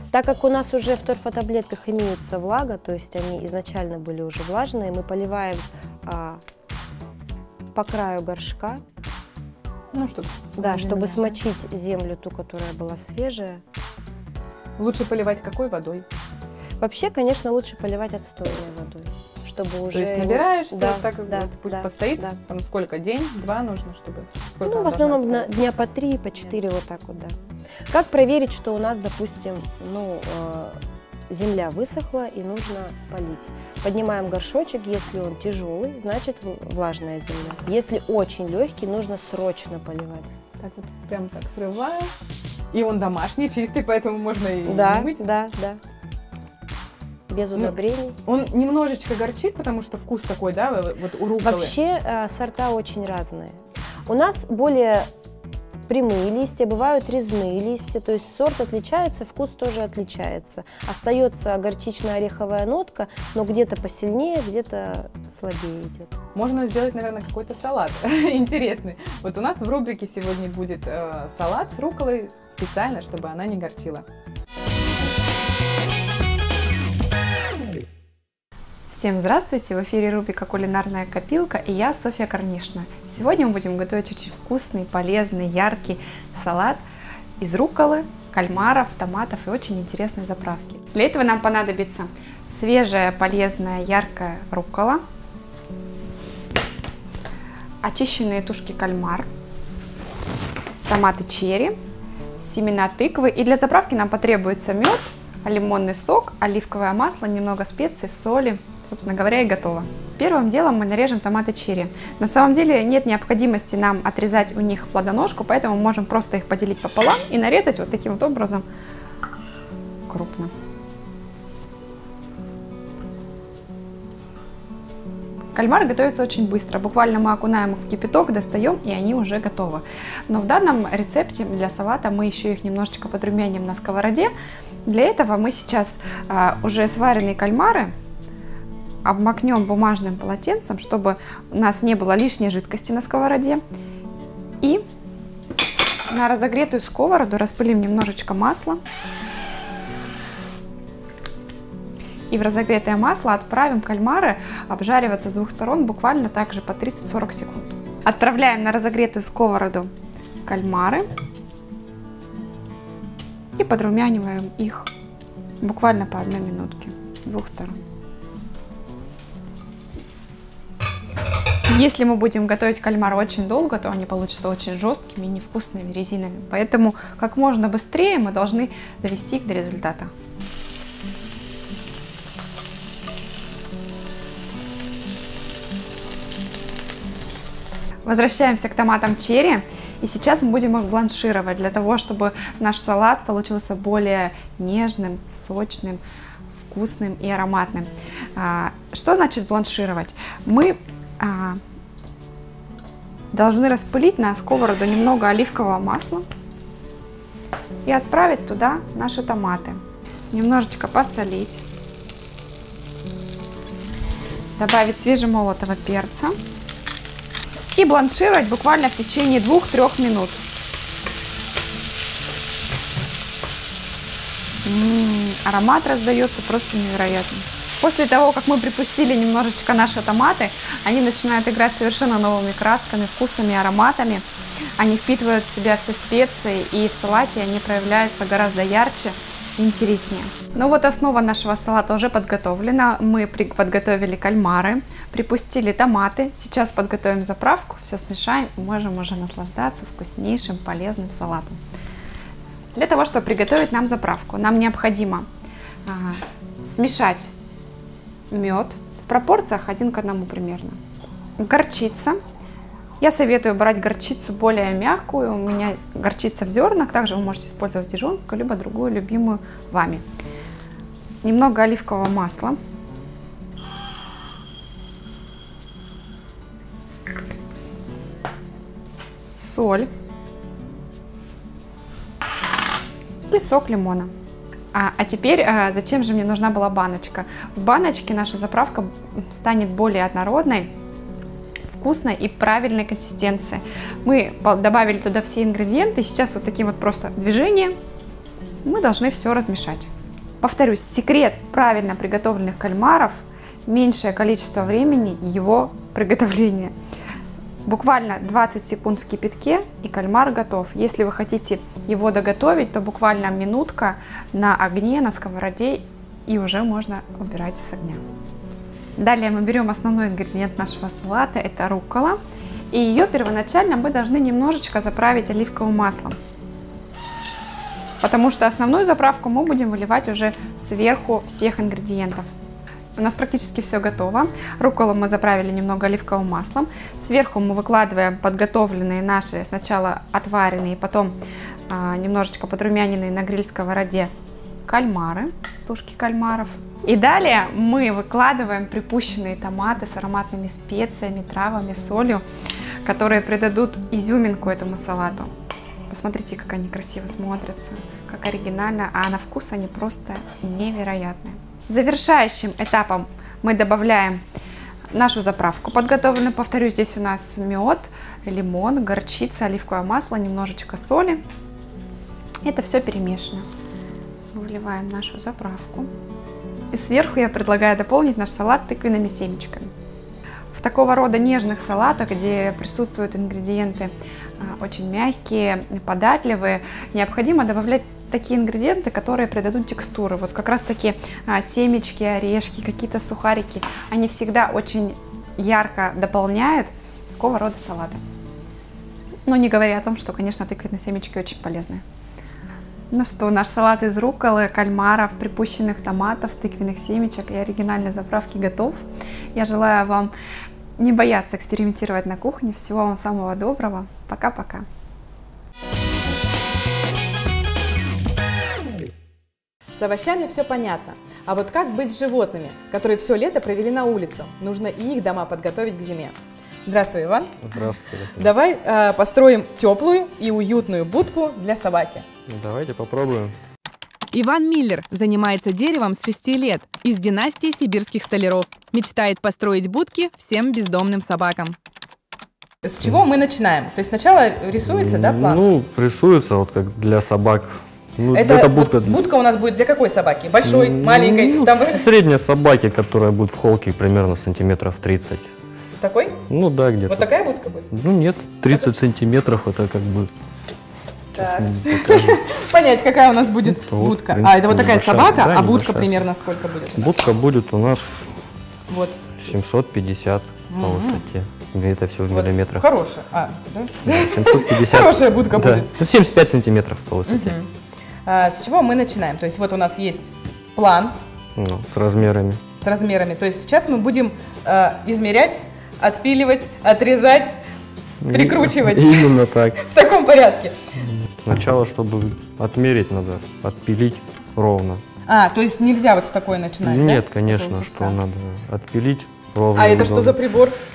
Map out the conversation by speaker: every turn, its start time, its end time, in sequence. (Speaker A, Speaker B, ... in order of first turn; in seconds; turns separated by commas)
Speaker A: 0.1-6.4, Speaker A: 7.7-8.8, Speaker B: 9.9-11.4, Speaker A: 10.6-13.6, Speaker B: 14.8-16.1, Speaker A: 16.8-22.4, Speaker B: 19.9-25.6, Speaker A: 24.6-27.4, Speaker A: 27.9-30.8, Speaker A: 31.3-40.3, Speaker B: 40.6-42.1, Speaker B: 42.7-45.2, Speaker A: 44.6-45.8, Speaker A: 47.3-48.2, Speaker B: 47.5-51.8, Speaker A: 51.4-55.1, Speaker A: 55.9-66.1, Speaker B: 66.3-74.0, Speaker C: 78.9-86.8, Speaker C: 87.4-95.0, Speaker C: 97.8-99.3, Speaker C: 100.9-101.8, Speaker C: 102.4-118.7, Speaker C: 120.1-120.5, Speaker C: 125.5-134.3, Speaker C: 134.9-137.9, Speaker C: 139.1-143.6, Speaker C: 146.1-148.8, Speaker C: 152.3-159.9, Speaker C: 160.5-161.1, Speaker C: 163.6-164.9, Speaker C: 165.6-167.8, Speaker C: 171.7-180.1, Speaker C: 188.1-196.0, Speaker C: 196.7-201.6, Speaker C: 203.3-206.3, Speaker C: 207.9-209.8, Speaker C: 210.3-211.6, Speaker C: 214.6-216.4, Speaker C: 217.8-220.4, Speaker C: 224.6-234.3, Speaker C: 234.8-251.6, Speaker C: 252.8-255.3, Speaker C: 255.9-257.3, Speaker C: 258.3-260.8, Speaker C: 261.4-262.2, Speaker C: 263.0-270.0, Speaker C: 271.2-272.6, Speaker C: 279.4-279.9, Speaker C: 283.3-284.1, Speaker C: 284.7-290.7, Speaker C: 291.7-297.8, Speaker C: 298.6-299.9, Speaker C: 300.4-306.8, Speaker C: 307.6-318.0, Speaker C: 319.0-322.2, Speaker C: 322.7-326.2, Speaker C: 328.0-332.3, Speaker C: 333.0-341.1, Speaker C: 341.7-344.1, Speaker C: 344.7-352.2, Speaker C: 352.8-355.3, Speaker C: 355.9-364.2, Speaker C: 364.9-371.2, Speaker C: 372.4-373.5, Speaker C: 374.3-375.9, Speaker C: 376.7-379.7, Speaker C: 380.5-398.0, Speaker C: 399.3-401.8, Speaker C: 402.9-410.1, Speaker C: 410.8-414.7, Speaker B: 419.7-426.1, Speaker B: 426.7-427.4, Speaker D: 427.4-428.3, Speaker B: 428.2-432.1, Speaker D: 432.3-433.4, Speaker B: 434.1-441.6, Speaker B: 442.6-445.4, Speaker D: 444.6-449.0, Speaker B: 448.1-451.9, Speaker D: 450.4-455.3, Speaker B: 455.8-456.2, Speaker D: 456.3-457.1, Speaker B: 456.9-457.7, Speaker D: 457.7-460.1, Speaker D: 461.1-462.2, Speaker B: 461.1-467.0, Speaker D: 463.4-466.0, Speaker D: 466.8-468.1, Speaker B: 468.7-469.0, Speaker D: 469.1-472.7, Speaker B: 470.5-471.0, Speaker B: 472.1-475.8, Speaker D: 473.9-477.4, Speaker B: 477.1-477.5, Speaker B: 478.1-481.0, Speaker D: 481.4-482.4, Speaker B: 482.6-487.4, Speaker D: 488.0-489.6, Speaker B: 488.1-490.6, Speaker D: 490.9-494.8, Speaker B: 495.1-498.0, Speaker D: 496.6-500.2, Speaker B: 499.6-500.6